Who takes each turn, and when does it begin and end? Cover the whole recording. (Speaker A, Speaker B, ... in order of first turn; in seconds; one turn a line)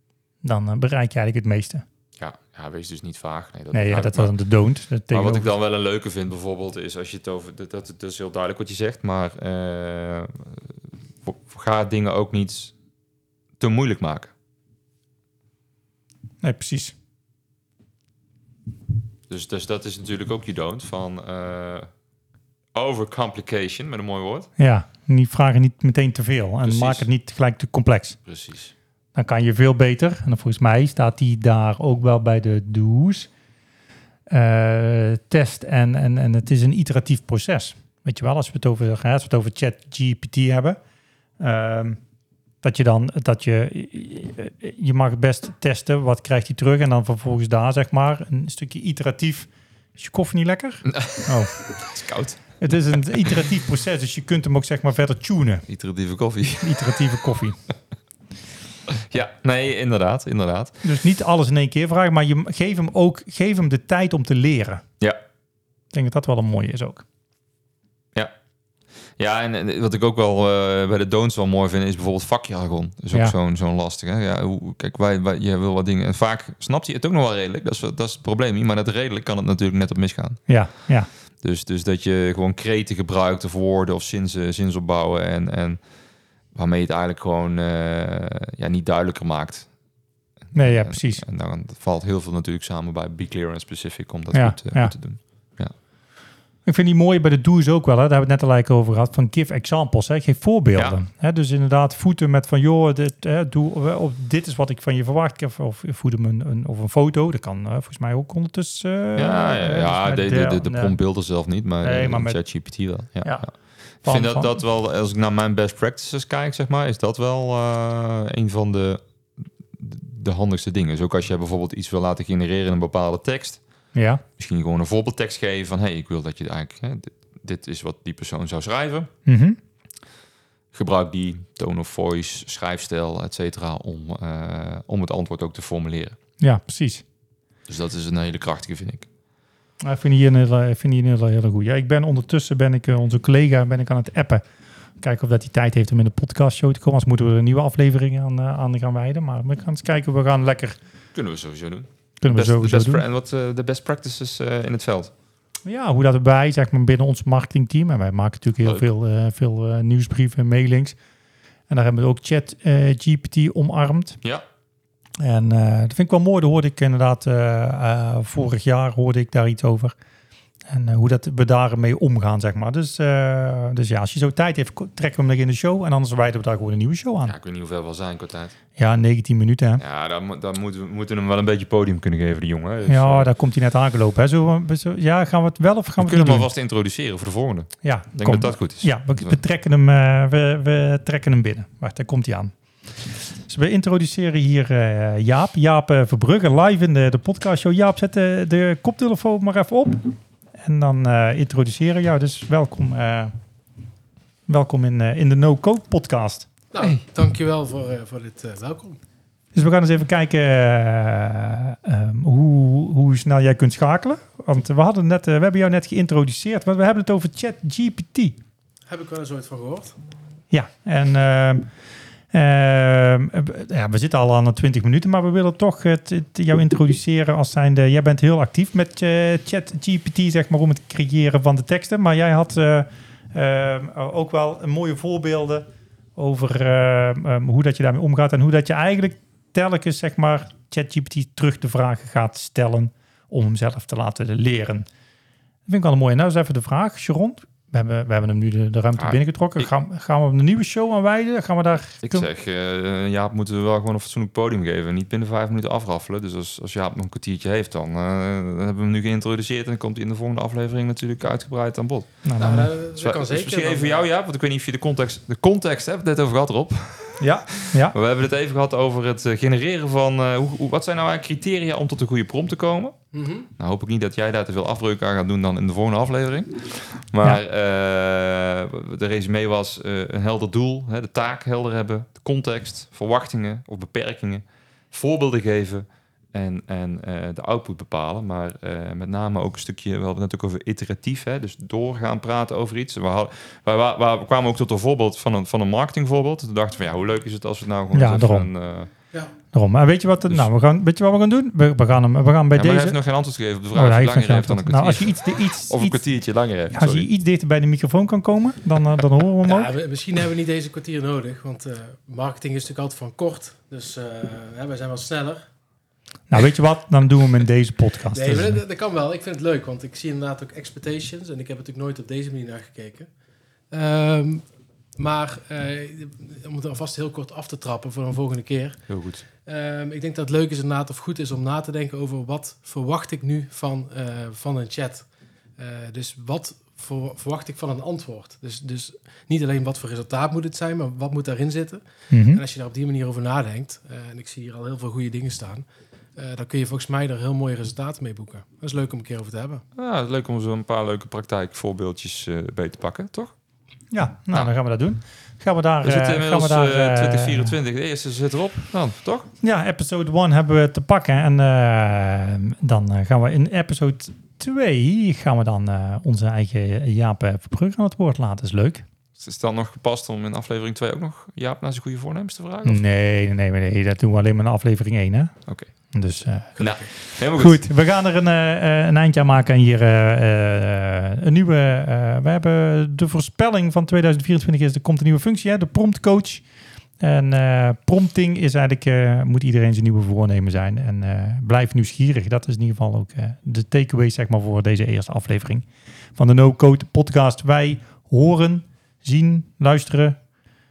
Speaker A: 0.4-1.8
Speaker B: 2.2-4.3
Speaker A: 3.7-5.5
Speaker B: 5.1-12.7
Speaker B: 13.6-14.3
Speaker A: 16.4-16.9
Speaker B: 19.3-21.9
Speaker B: 22.7-24.5
Speaker A: 24.6-28.2
Speaker B: 26.6-27.1
Speaker B: 28.2-28.7
Speaker A: 29.1-33.3
Speaker A: 34.3-40.8
Speaker A: 41.4-42.0
Speaker A: 42.6-51.6
Speaker B: 50.9-52.4
Speaker A: 52.6-55.7
Speaker B: 55.7-57.0
Speaker A: 56.6-57.6
Speaker B: 58.9-60.8
Speaker A: 60.8-64.8
Speaker A: 65.9-67.0
Speaker B: 69.2-80.5
Speaker A: 80.5-81.1
Speaker B: 81.4-85.8
Speaker B: 86.5-89.7
Speaker B: 90.5-95.7
Speaker A: 90.5-91.2
Speaker A: 94.3-94.9
Speaker A: 96.6-111.0
Speaker B: 100.8-101.0
Speaker B: 109.2-119.0
Speaker A: 111.8-112.4
Speaker A: 113.2-113.5
Speaker A: 114.0-114.6
Speaker B: 119.8-123.6
Speaker A: 123.9-124.2
Speaker B: 124.4-129.1
Speaker A: 129.2-129.6
Speaker B: 130.7-136.2
Speaker A: 136.4-137.0
Speaker B: 137.7-139.1
Speaker A: 139.8-144.4
Speaker A: 145.0-150.8
Speaker B: 151.1-155.1
Speaker A: 152.2-153.0
Speaker A: 155.7-161.0
Speaker B: 158.6-158.9
Speaker A: 161.7-164.2
Speaker A: 165.2-169.9
Speaker A: 170.7-177.3
Speaker B: 177.2-178.5
Speaker A: 178.8-179.8
Speaker B: 179.8-183.3
Speaker A: 182.9-186.5
Speaker B: 186.0-189.4
Speaker A: 187.8-192.5
Speaker A: 193.4-203.3
Speaker A: 204.5-206.5
Speaker C: 206.7-209.0
Speaker A: 209.5-218.4
Speaker C: 218.9-219.9
Speaker A: 220.5-221.7
Speaker A: 222.3-244.8
Speaker A: 245.7-252.3
Speaker B: 248.9-249.7
Speaker B: 252.0-272.9
Speaker A: 262.2-262.7
Speaker C: 262.4-264.0
Speaker A: 267.2-267.9
Speaker C: 273.1-273.5
Speaker B: 273.6-298.9
Speaker A: 297.9-298.5
Speaker A: 299.5-303.0
Speaker B: 302.5-307.1
Speaker A: 303.7-306.0
Speaker A: 306.7-309.7
Speaker C: 309.4-315.4
Speaker A: 316.3-318.6
Speaker C: 318.1-323.1
Speaker C: 323.7-324.4
Speaker C: 325.0-328.9
Speaker B: 328.9-329.2
Speaker C: 329.4-335.1
Speaker C: 335.6-345.6
Speaker A: 342.1-342.4
Speaker C: 346.1-349.6
Speaker B: 349.8-353.3
Speaker A: 353.9-357.5
Speaker B: 355.8-359.3
Speaker A: 359.4-368.8
Speaker B: 369.2-372.8
Speaker A: 372.6-375.3
Speaker A: 375.9-376.6
Speaker B: 376.6-377.6
Speaker A: 377.3-386.4
Speaker A: 387.0-395.6
Speaker A: 396.2-400.2